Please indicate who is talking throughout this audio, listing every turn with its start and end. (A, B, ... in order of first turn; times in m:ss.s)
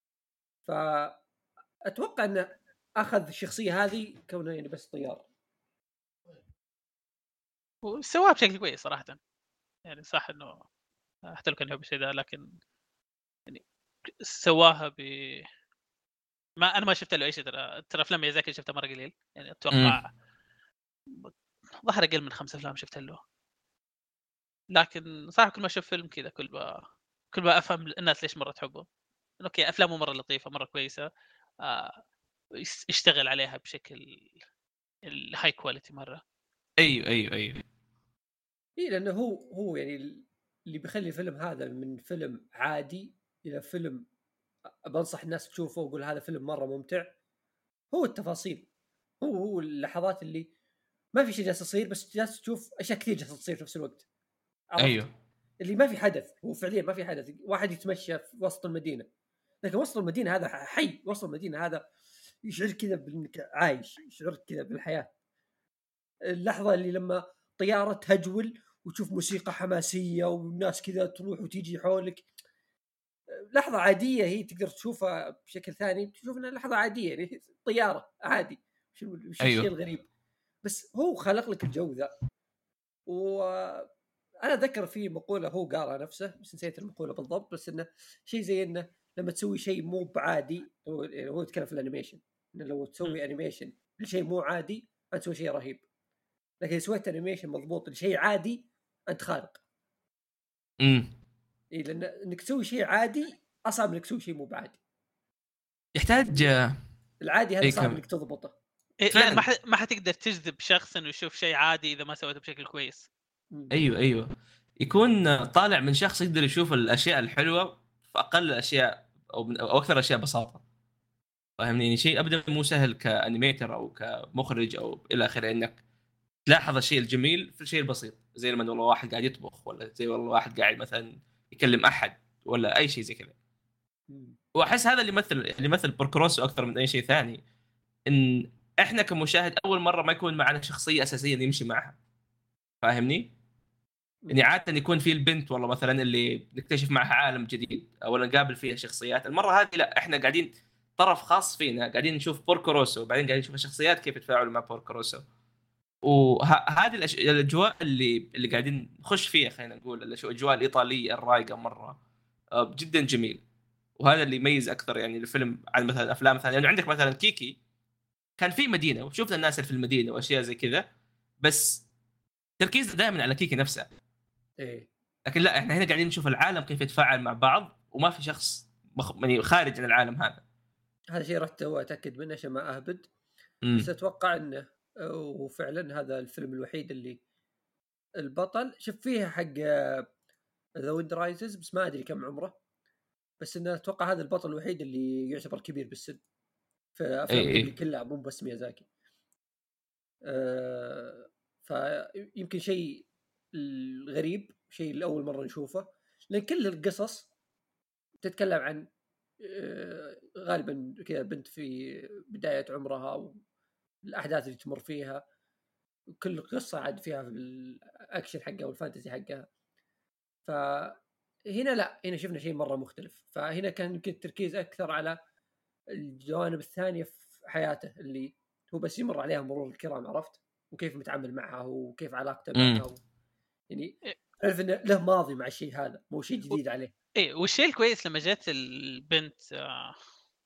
0:00.7-0:01.2 A
0:01.9-0:05.3 A
0:07.8-0:09.2 B
0:09.9-0:10.6 B
0:11.3-0:12.5 B
0:13.5-0:15.5 B
0:16.6-0:20.1 B
0:19.7-0:20.0 C
0:21.8-0:23.2 B
0:24.7-0:28.8 B
0:29.4-0:31.0 B
0:31.6-0:32.0 B
0:32.6-0:34.3 B
0:35.1-0:36.2 B
0:36.8-0:37.6 C
0:38.8-0:44.1 A
0:44.9-0:47.1 A
0:47.9-0:48.7 A
0:49.2-0:50.5 A
0:51.2-0:54.0 A
0:54.7-0:55.0 A
0:54.8-0:55.1 C
0:55.6-0:59.1 A
0:59.6-1:01.8 A
1:02.4-1:05.1 A
1:06.3-1:12.3 A
1:13.3-1:20.1 A
1:19.4-1:19.7 C
1:20.6-1:22.1 A
1:23.1-1:23.9 A
1:24.4-1:35.8 A
1:36.6-1:39.6 A
1:40.8-1:41.1 C
1:41.7-1:44.8 A
1:46.0-1:46.8 C
1:47.2-1:48.6 A
1:47.6-1:48.0 C
1:49.0-1:53.1 B
1:49.1-1:49.4 C
1:53.7-1:54.3 C
1:54.8-2:00.6 C
2:01.6-2:05.8 C
2:06.5-2:13.4 C
2:14.1-2:14.4 A
2:14.6-2:17.4 C
2:18.1-2:22.0 C
2:22.8-2:23.3 C
2:24.3-2:35.2 C
2:36.0-2:42.0 C
2:42.6-2:43.4 C
2:44.0-2:47.6 C
2:48.4-2:50.8 C
2:51.4-2:51.8 C
2:52.6-2:53.9 C
2:54.6-2:54.9 A
2:55.3-3:00.4 C
3:01.1-3:03.1 A
3:03.8-3:07.2 A
3:08.2-3:10.0 A
3:10.8-3:12.6 A
3:13.4-3:16.2 A
3:17.0-3:18.9 A
3:17.3-3:17.7 C
3:20.3-3:27.3 A
3:28.2-3:28.8 A
3:29.4-3:33.4 A
3:34.1-3:35.2 A
3:36.2-3:39.5 A
3:40.4-3:41.0 A
3:41.5-3:45.2 A
3:45.9-3:53.0 A
3:52.6-3:52.8 C
3:53.7-3:56.9 A
3:57.2-4:00.0 B